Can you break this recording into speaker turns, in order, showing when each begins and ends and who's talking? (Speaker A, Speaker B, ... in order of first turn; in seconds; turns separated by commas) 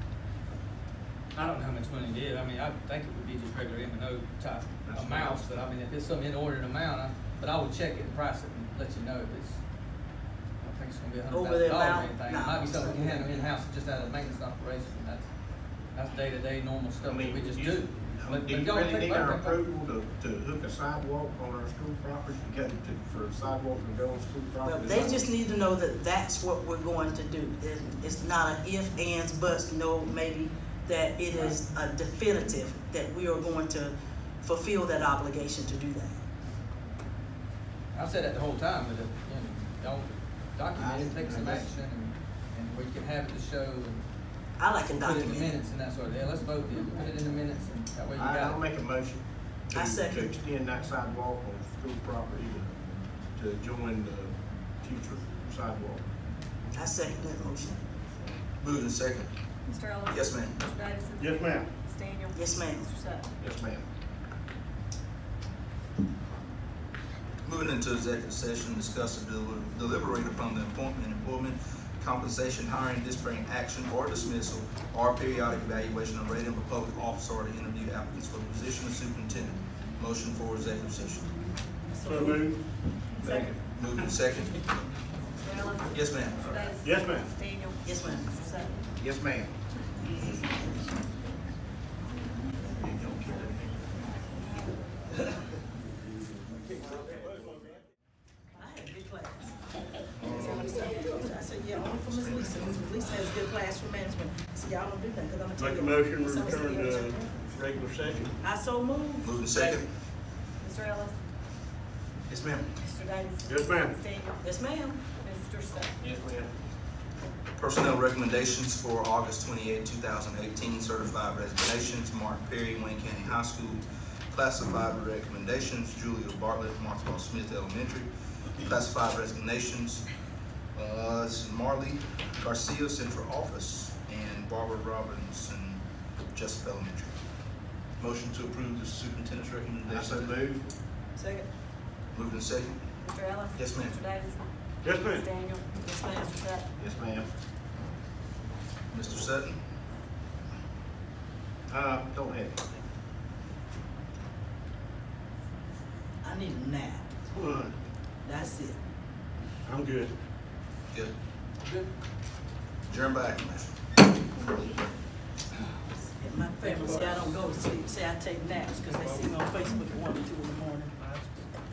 Speaker A: 1.3-9.6, Speaker B: 4.8-5.7, Speaker A: 10.6-15.3, Speaker C: 11.3-13.5, Speaker A: 15.9-19.6, Speaker B: 17.1-25.3, Speaker C: 24.6-36.2, Speaker A: 37.9-44.0, Speaker B: 40.8-41.7, Speaker C: 44.6-45.5, Speaker A: 44.9-48.6, Speaker B: 48.1-52.8, Speaker C: 49.7-50.3, Speaker B: 53.3-56.0, Speaker C: 56.7-57.8, Speaker D: 58.6-59.3, Speaker E: 59.6-63.3, Speaker D: 60.1-60.6, Speaker F: 61.2-61.7, Speaker C: 62.3-62.9, Speaker B: 63.4-63.9, Speaker D: 67.4-81.3, Speaker C: 81.9-82.5, Speaker F: 82.0-82.6, Speaker E: 83.2-83.5, Speaker B: 83.2-83.5, Speaker D: 83.5-84.6, Speaker E: 85.4-88.2, Speaker D: 85.9-86.7, Speaker F: 86.8-87.3, Speaker C: 87.8-88.7, Speaker B: 89.0-89.5, Speaker C: 98.6-99.5, Speaker D: 100.2-100.7, Speaker C: 100.2-107.3, Speaker D: 102.0-102.7, Speaker F: 105.6-108.3, Speaker C: 108.4-109.9, Speaker D: 109.2-109.9, Speaker E: 110.6-111.2, Speaker D: 112.3-112.7, Speaker E: 112.8-114.5, Speaker F: 113.5-114.0, Speaker C: 114.4-115.0, Speaker E: 115.1-116.0, Speaker B: 116.0-116.5, Speaker D: 117.6-130.1, Speaker D: 130.7-137.2, Speaker D: 138.0-140.4, Speaker B: 139.9-140.7, Speaker D: 142.1-142.8, Speaker E: 143.0-144.5, Speaker D: 143.6-143.9, Speaker F: 144.8-145.3, Speaker E: 145.0-146.6, Speaker C: 145.8-146.3, Speaker B: 146.8-147.3, Speaker D: 148.9-149.6, Speaker B: 151.7-152.6, Speaker C: 156.2-157.1, Speaker F: 157.3-157.7, Speaker C: 158.2-158.8, Speaker F: 159.7-160.1, Speaker A: 161.6-161.9, Speaker D: 162.9-163.7, Speaker C: 166.2-171.2, Speaker A: 166.6-167.2